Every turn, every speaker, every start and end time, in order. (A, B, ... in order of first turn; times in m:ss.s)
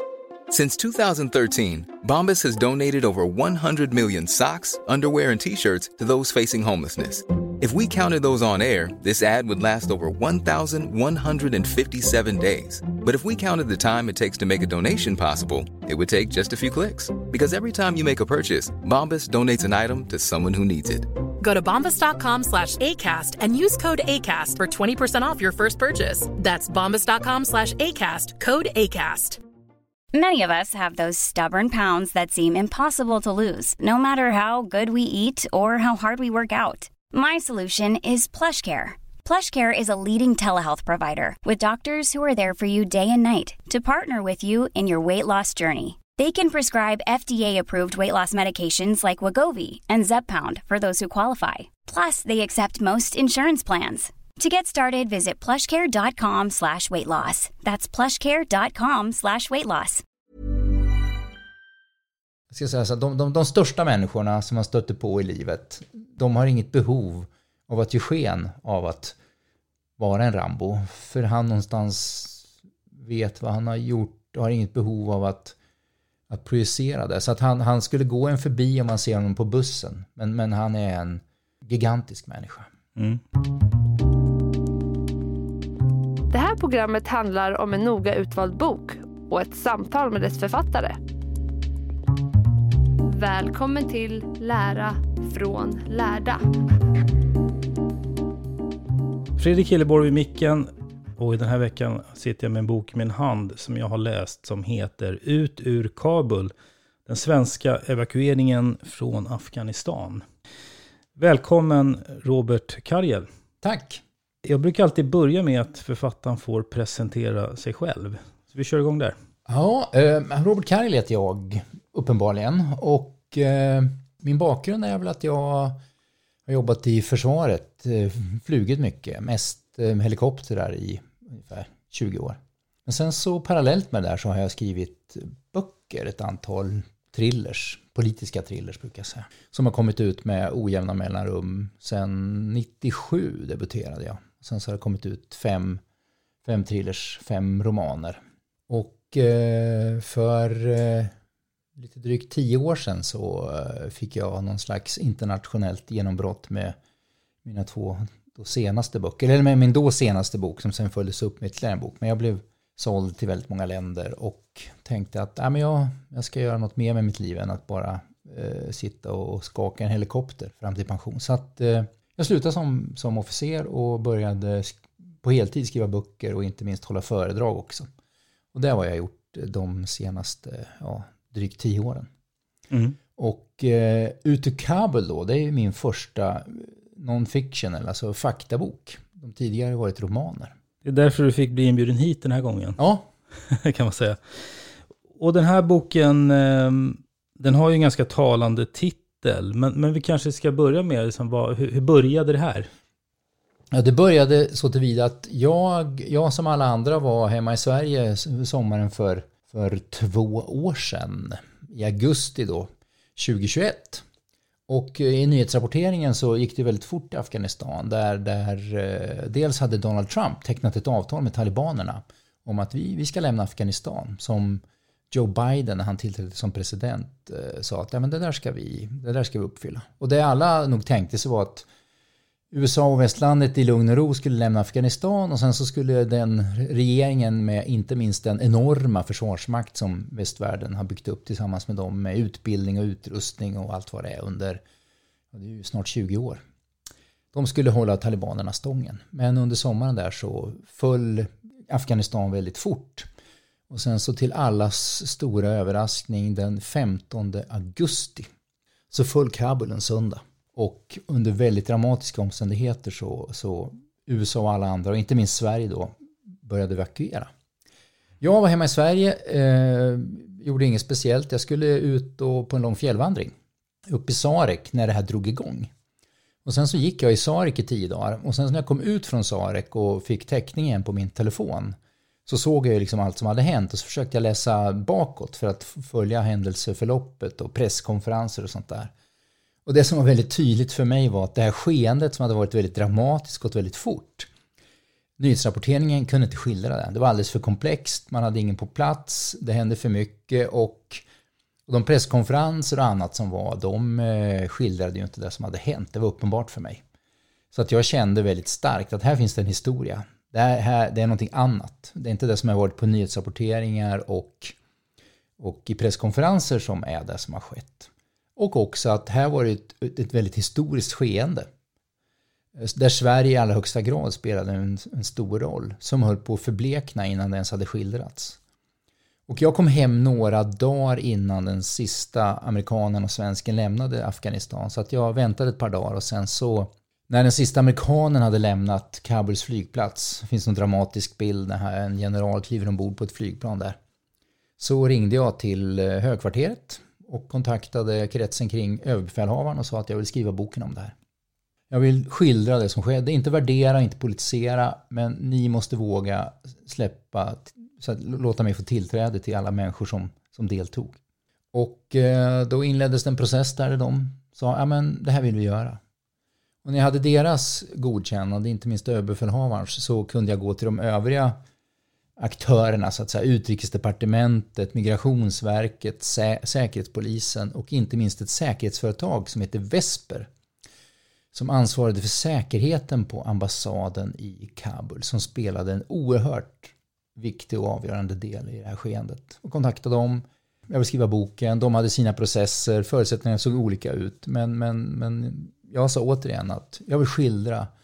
0:00.5-0:21.1 A
0:21.4-0:29.4 B
0:30.1-1:00.0 C
1:02.5-1:09.2 D
1:10.0-1:15.5 D
1:16.3-1:22.7 D
1:23.0-1:23.2 E
1:26.3-1:31.0 F
1:33.0-1:36.4 F
1:39.4-1:46.5 E
1:47.0-1:50.2 E
1:51.2-1:53.3 E
1:53.6-1:54.0 D
1:54.4-1:59.2 E
1:59.4-2:05.8 D
2:06.5-2:25.8 D
2:26.4-2:31.1 D
2:31.8-2:36.8 D
2:37.4-2:57.9 D
2:58.5-3:02.1 D
3:02.7-3:03.0 E
3:03.2-3:10.5 D
3:10.8-3:12.8 E
3:12.8-3:13.1 D
3:13.4-3:22.7 E
3:23.7-3:34.0 D
3:34.7-3:51.6 D
3:52.5-4:04.6 D
4:05.3-4:06.4 D
4:07.3-4:13.1 D
4:13.7-4:18.3 D
4:18.9-4:27.3 D
4:28.2-4:33.3 D
4:33.9-4:35.7 D
4:36.4-4:48.9 D
4:49.6-4:54.3 D
4:55.2-5:01.0 D
5:01.7-5:06.8 D
5:07.5-5:14.5 D
5:15.4-5:21.5 D
5:22.6-5:28.4 D
5:29.3-5:43.8 D
5:44.6-5:50.9 D
5:51.7-6:01.0 D
6:01.5-6:05.8 D
6:06.6-6:11.4 D
6:12.2-6:20.3 D
6:21.3-6:37.7 D